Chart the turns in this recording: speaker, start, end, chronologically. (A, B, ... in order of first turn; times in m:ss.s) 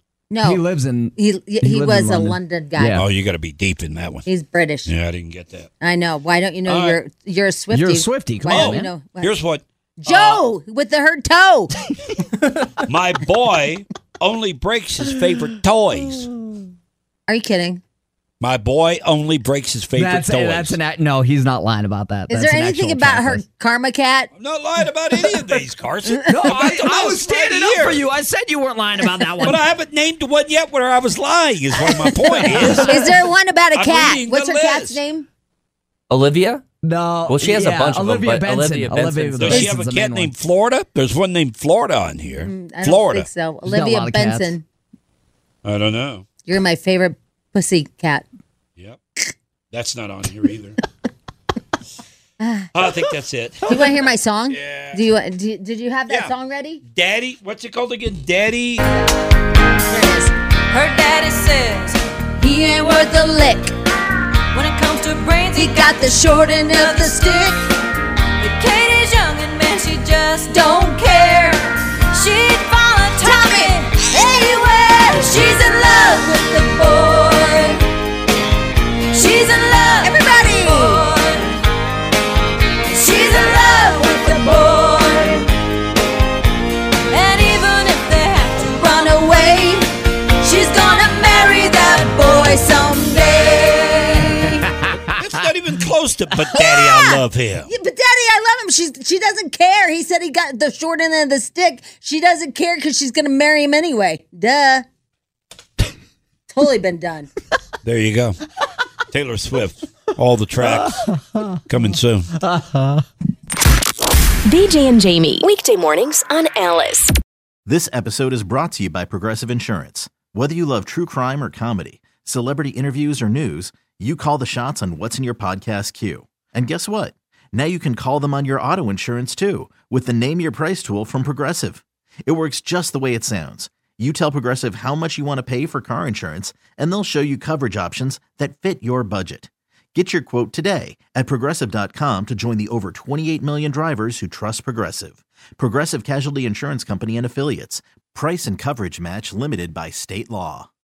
0:00.3-0:00.6 A
0:00.4-0:03.0 B
0:01.2-0:03.0 A
0:02.9-0:04.2 C
0:04.2-0:04.9 A
0:04.9-0:05.7 C
0:05.8-0:09.3 A
0:06.6-0:07.0 C
0:07.7-0:08.9 B
0:08.5-0:10.4 C
0:10.0-0:11.7 A
0:12.8-0:16.3 C
0:17.3-0:17.8 A
0:18.4-0:20.8 C
0:20.0-0:23.4 B
0:22.3-0:24.3 A
0:24.4-0:28.0 C
0:26.1-0:26.4 A
0:26.3-0:29.6 B
0:29.4-0:33.2 C
0:31.8-0:35.2 A
0:33.7-0:35.0 C
0:36.1-0:36.6 D
0:36.8-0:40.3 B
0:37.3-0:39.6 D
0:39.4-0:43.3 C
0:42.4-0:44.6 A
0:43.6-0:44.5 B
0:45.6-0:46.2 C
0:46.4-0:48.2 A
0:49.7-0:50.8 C
0:52.4-0:52.7 A
0:52.7-0:54.0 C
0:53.7-0:56.8 A
0:54.5-0:55.0 C
0:56.9-0:58.8 C
0:59.9-1:00.3 A
1:00.7-1:02.0 E
1:02.4-1:03.7 A
1:04.5-1:07.6 E
1:05.5-1:07.6 A
1:08.4-1:17.8 E
1:13.2-1:13.8 A
1:19.1-1:21.6 E
1:20.0-1:21.0 A
1:22.9-1:25.5 E
1:27.1-1:29.3 E
1:28.8-1:29.8 A
1:30.4-1:34.2 E
1:30.6-1:33.2 A
1:34.2-1:34.6 A
1:35.1-1:37.7 C
1:36.5-1:44.8 A
1:46.5-1:47.3 A
1:47.8-1:48.4 C
1:49.1-1:51.1 C
1:51.7-1:52.3 C
1:52.5-1:53.0 B
1:54.5-1:56.5 F
1:57.6-2:30.7 G